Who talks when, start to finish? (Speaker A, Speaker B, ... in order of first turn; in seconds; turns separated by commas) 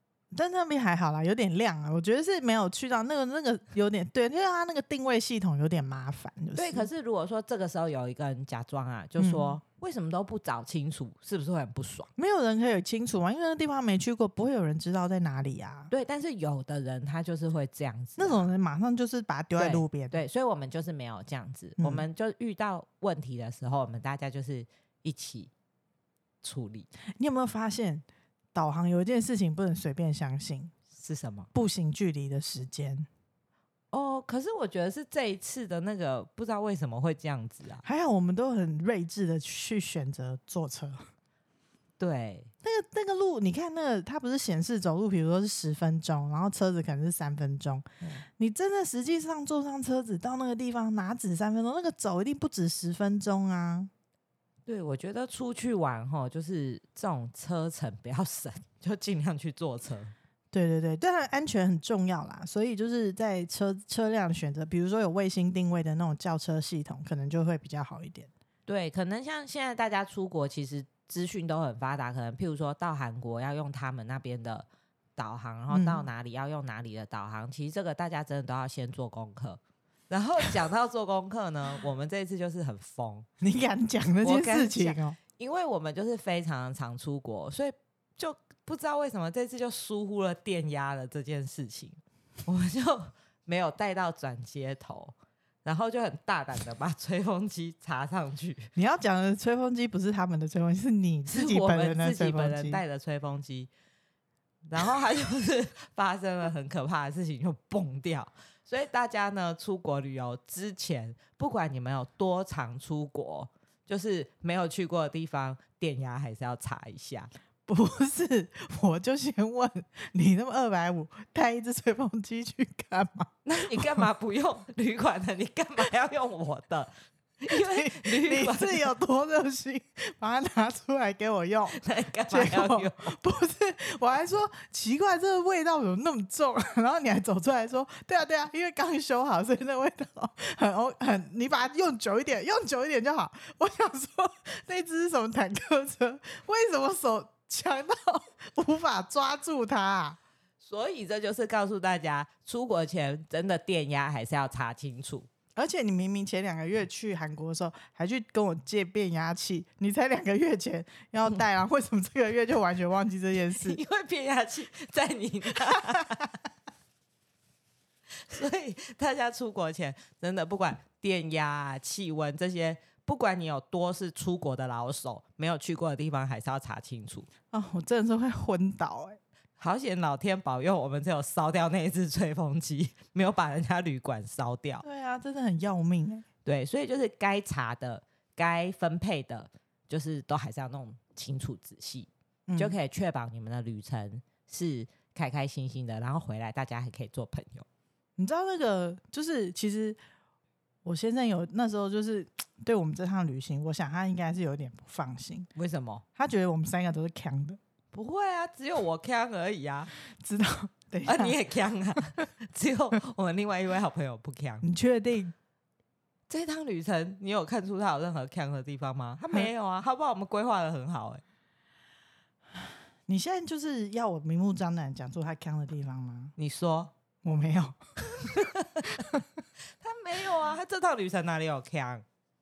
Speaker A: 0.3-6.9, Speaker B: 6.6-12.1, Speaker A: 9.2-9.6, Speaker A: 12.2-15.9, Speaker B: 15.9-18.5, Speaker A: 18.2-20.2, Speaker B: 19.6-25.5, Speaker A: 21.8-22.1, Speaker B: 26.4-26.9, Speaker A: 27.2-30.7, Speaker B: 30.9-31.5, Speaker A: 31.5-33.1, Speaker B: 33.9-37.8, Speaker A: 37.8-41.0, Speaker B: 42.0-42.5, Speaker A: 42.6-53.9, Speaker B: 54.7-60.1, Speaker A: 60.5-68.3, Speaker B: 68.7-83.3, Speaker A: 75.7-76.1, Speaker A: 83.4-85.2, Speaker B: 84.2-98.7, Speaker A: 98.8-102.8, Speaker B: 101.3-103.7, Speaker B: 104.7-117.3, Speaker A: 117.7-124.1, Speaker B: 123.5-128.9, Speaker A: 127.5-150.2, Speaker B: 131.7-133.1, Speaker B: 150.6-155.3, Speaker A: 155.6-163.8, Speaker B: 163.6-166.3, Speaker B: 168.3-177.3, Speaker A: 177.5-179.2, Speaker B: 179.6-184.8, Speaker A: 184.8-186.2, Speaker B: 186.4-197.7, Speaker A: 192.5-192.8, Speaker A: 198.2-200.0, Speaker A: 200.8-205.5, Speaker B: 205.6-206.0, Speaker A: 206.2-207.6, Speaker B: 207.9-209.9, Speaker A: 210.2-211.4, Speaker B: 211.0-214.7, Speaker A: 214.6-215.3, Speaker B: 216.3-221.2, Speaker A: 223.1-226.3, Speaker B: 226.4-226.9, Speaker A: 227.2-227.8, Speaker B: 229.8-232.0